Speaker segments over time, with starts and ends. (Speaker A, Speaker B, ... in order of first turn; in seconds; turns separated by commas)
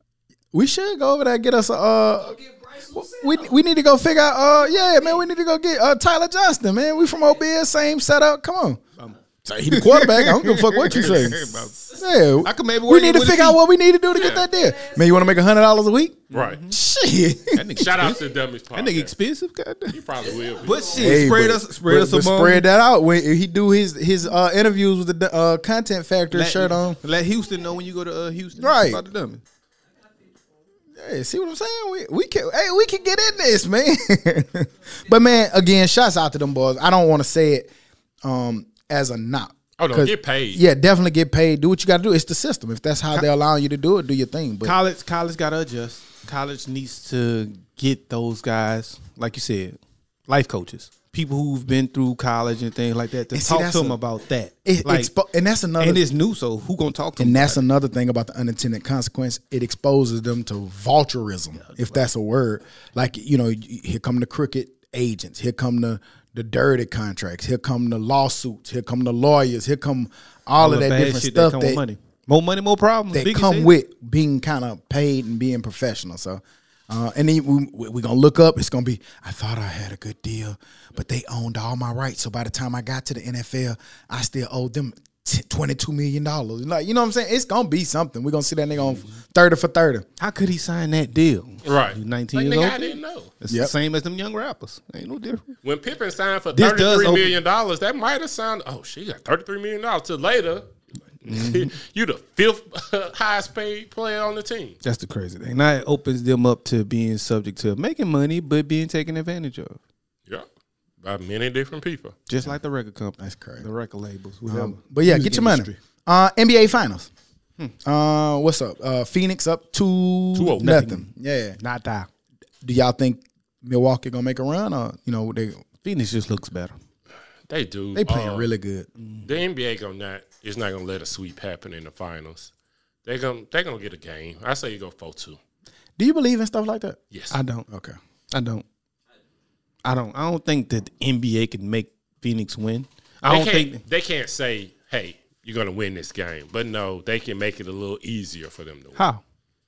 Speaker A: 0.5-2.4, Speaker B: 2.2-3.5, Speaker A: 2.9-8.8, Speaker B: 4.6-5.2, Speaker C: 9.0-11.9, Speaker A: 9.4-17.6, Speaker C: 12.4-13.6, Speaker D: 14.1-14.5, Speaker B: 14.2-15.4, Speaker C: 16.3-16.8, Speaker D: 16.3-16.6, Speaker C: 17.5-18.2, Speaker D: 17.8-19.1, Speaker C: 18.7-20.0, Speaker D: 19.9-21.2, Speaker B: 20.2-21.2, Speaker C: 20.6-22.7, Speaker A: 20.9-27.0, Speaker C: 26.3-29.4, Speaker A: 28.6-29.0, Speaker B: 30.0-30.4, Speaker A: 31.0-37.7, Speaker A: 38.2-44.8, Speaker D: 39.8-40.6, Speaker C: 44.6-55.1, Speaker A: 53.3-54.0, Speaker A: 54.6-56.0, Speaker C: 55.8-57.6, Speaker A: 57.2-71.8, Speaker C: 61.6-62.0, Speaker C: 70.6-73.7, Speaker A: 73.1-90.0, Speaker C: 90.2-95.5, Speaker D: 91.6-93.3, Speaker D: 95.6-100.7, Speaker C: 96.5-97.4, Speaker D: 101.2-104.8, Speaker C: 101.3-101.7, Speaker C: 104.8-109.8, Speaker D: 111.0-112.2, Speaker C: 112.3-115.8, Speaker A: 113.2-113.7, Speaker A: 114.5-117.1, Speaker A: 117.8-121.6, Speaker C: 120.3-122.1, Speaker A: 122.6-125.6, Speaker C: 125.8-126.8, Speaker D: 127.5-128.5, Speaker A: 128.0-128.9, Speaker C: 129.0-129.3, Speaker D: 129.2-132.5, Speaker D: 133.1-135.4, Speaker A: 136.0-137.0, Speaker D: 137.1-137.4, Speaker C: 137.3-137.7, Speaker A: 137.7-138.0, Speaker C: 138.3-138.7, Speaker C: 139.8-143.8, Speaker D: 143.3-149.0, Speaker C: 149.0-149.2